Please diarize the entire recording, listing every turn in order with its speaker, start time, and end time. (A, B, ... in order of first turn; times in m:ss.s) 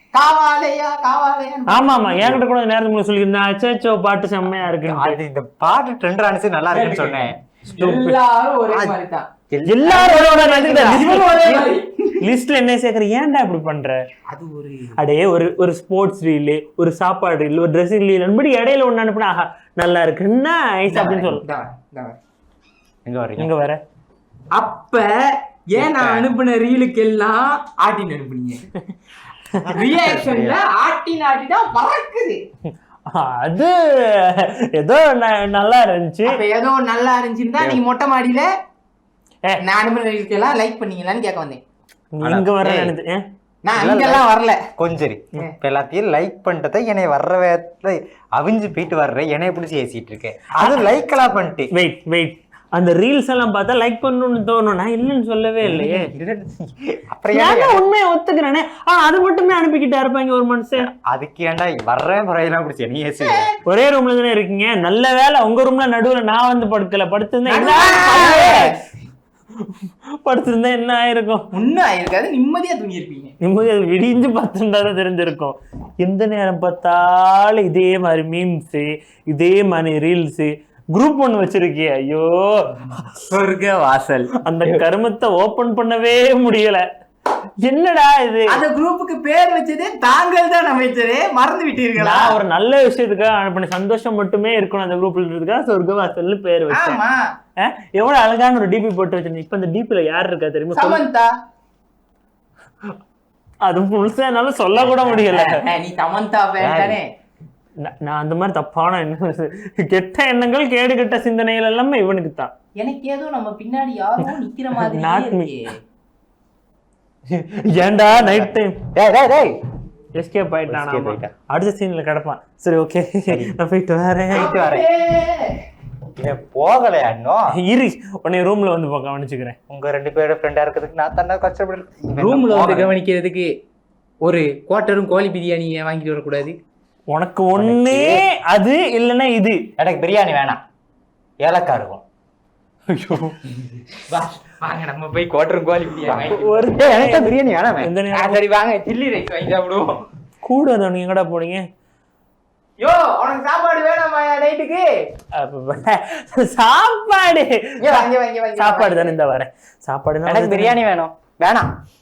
0:00.1-0:02.0 A
0:01.7-0:05.2 B
0:04.6-0:07.4 C
0:06.7-0:09.3 A
0:07.7-0:08.2 B
0:08.7-0:09.0 C
0:09.5-0:09.9 C
0:09.7-0:11.7 B
0:09.8-0:12.2 A
0:12.2-0:14.0 B
0:14.3-0:15.0 A
0:15.0-0:21.4 B
0:20.9-0:22.2 A
0:23.0-0:23.5 C
0:23.4-0:23.8 B
0:24.5-0:28.6 A
0:25.8-0:26.3 C
0:29.6-0:30.6 C
0:29.7-0:32.4 A
0:33.1-0:36.4 B
0:36.3-0:38.5 A
0:39.6-0:41.6 A
0:42.2-0:43.2 B
0:42.2-0:42.9 C
0:43.6-0:44.7 A
0:43.7-0:51.7 C
0:51.7-0:56.1 B
0:55.6-0:57.8 C
0:57.3-1:00.9 B
1:00.8-1:03.5 C
1:03.2-1:03.5 A
1:03.7-1:08.8 B
1:07.5-1:08.8 A
1:09.6-1:11.4 B
1:11.5-1:13.3 A
1:13.4-1:22.9 B
1:23.3-1:24.3 A
1:24.4-1:26.8 B
1:27.6-1:28.6 B
1:28.5-1:32.4 A
1:32.0-1:37.0 B
1:36.7-1:37.4 A
1:37.6-1:41.0 B
1:40.8-1:41.3 A
1:43.6-1:45.6 B
1:44.8-1:45.3 C
1:45.1-1:47.1 A
1:46.6-1:47.0 C
1:47.8-1:52.5 B
1:52.8-1:55.8 A
1:54.8-1:55.5 B
1:57.3-1:58.8 B
1:57.8-1:59.6 C
2:00.2-2:04.5 B
2:00.7-2:01.3 C
2:03.3-2:03.5 C
2:04.3-2:05.6 A
2:04.3-2:04.9 C
2:06.2-2:07.5 C
2:07.5-2:09.6 B
2:09.7-2:12.9 C
2:12.2-2:13.5 A
2:14.2-2:16.6 A
2:17.1-2:19.6 B
2:17.5-2:18.2 C
2:19.8-2:20.6 C
2:21.4-2:22.0 C
2:22.9-2:23.4 B
2:24.1-2:26.8 A
2:26.3-2:28.4 B
2:26.8-2:27.9 C
2:28.1-2:30.0 A
2:30.4-2:31.7 B
2:32.8-2:35.1 A
2:35.4-2:38.1 B
2:37.8-2:39.1 A
2:38.6-2:40.8 B
2:40.3-2:41.7 C